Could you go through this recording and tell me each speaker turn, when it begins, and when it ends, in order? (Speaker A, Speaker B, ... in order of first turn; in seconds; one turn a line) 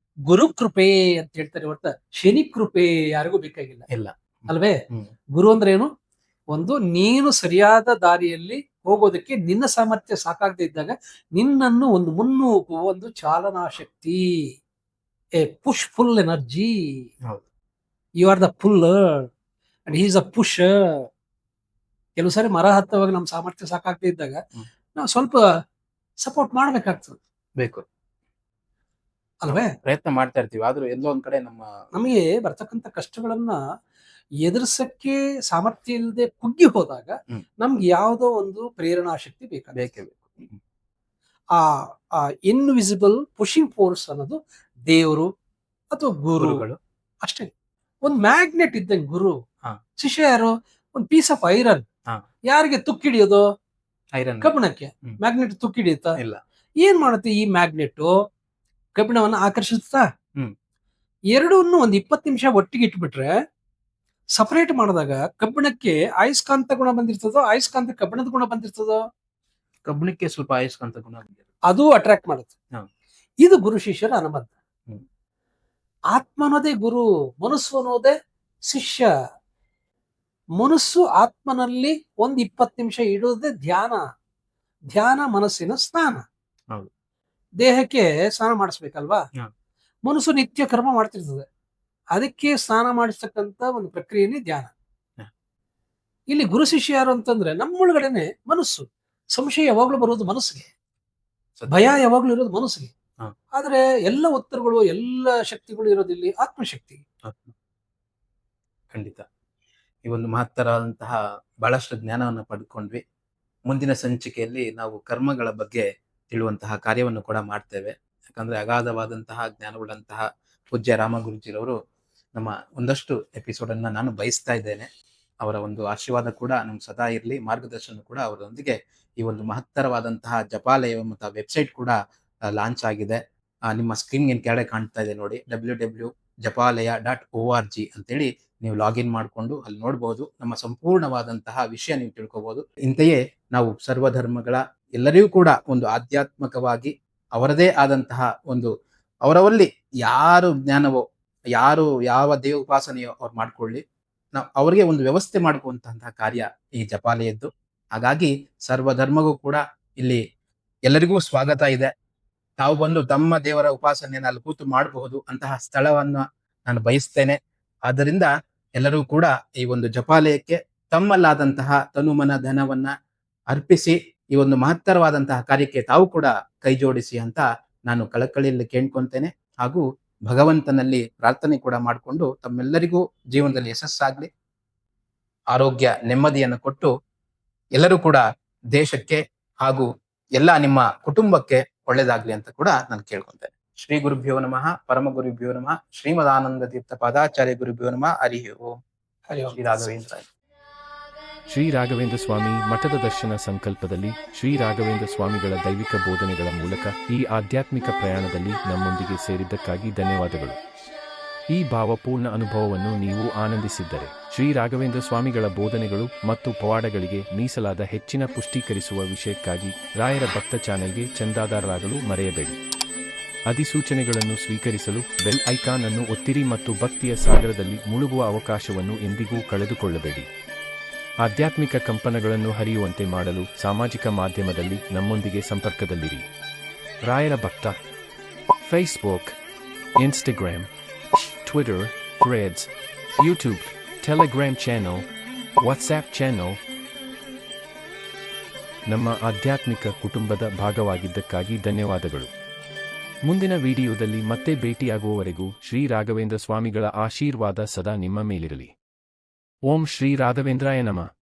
Speaker A: 0.3-3.8
Speaker B: 3.9-4.2
Speaker A: 4.5-4.8
Speaker A: 5.3-5.9
Speaker A: 6.5-14.2
Speaker A: 15.4-16.7
Speaker A: 18.2-19.2
Speaker A: 19.9-20.7
Speaker A: 22.1-24.4
Speaker A: 24.9-25.4
Speaker A: 26.2-27.2
Speaker B: 27.6-27.8
Speaker A: 29.4-29.7
Speaker B: 29.5-31.7
Speaker A: 31.9-33.6
Speaker A: 34.4-39.9
Speaker B: 39.7-40.6
Speaker A: 42.4-45.3
Speaker A: 45.9-46.6
Speaker B: 46.4-46.8
Speaker A: 47.2-47.5
Speaker A: 48.0-49.4
Speaker A: 50.0-51.8
Speaker A: 52.5-53.4
Speaker B: 54.1-54.5
Speaker A: 54.4-56.1
Speaker A: 56.8-58.1
Speaker A: 59.0-60.0
Speaker A: 61.3-63.3
Speaker A: 64.4-69.0
Speaker B: 69.8-71.4
Speaker A: 71.7-72.5
Speaker A: 73.4-74.5
Speaker A: 76.1-78.1
Speaker A: 78.7-79.1
Speaker A: 80.6-84.0
Speaker A: 84.9-86.2
Speaker A: 87.6-89.2
Speaker A: 90.0-91.4
Speaker A: 92.1-94.7
Speaker A: 96.3-100.7
Speaker B: 101.6-101.8
Speaker A: 101.7-102.9
Speaker A: 103.5-107.0
Speaker B: 107.2-107.5
Speaker B: 108.9-109.2
Speaker B: 110.0-113.0
Speaker B: 113.7-121.7
Speaker B: 122.3-124.9
Speaker B: 125.4-132.0
Speaker B: 132.5-148.7
Speaker B: 149.2-151.0
Speaker B: 151.6-153.8
Speaker B: 154.3-160.2
Speaker B: 160.9-161.9
Speaker B: 162.6-172.9
Speaker B: 173.5-184.3
Speaker B: 185.5-186.9
Speaker B: 187.8-198.8
Speaker A: 199.3-199.9
Speaker B: 199.5-200.2
Speaker C: 201.5-210.6
Speaker C: 211.5-222.6
Speaker C: 223.5-230.3
Speaker C: 231.2-236.2
Speaker C: 237.0-237.8
Speaker C: 238.6-239.3
Speaker C: 239.9-240.7
Speaker C: 241.4-245.1
Speaker C: 245.6-246.6
Speaker C: 248.9-252.3
Speaker C: 253.2-258.7
Speaker C: 259.6-261.1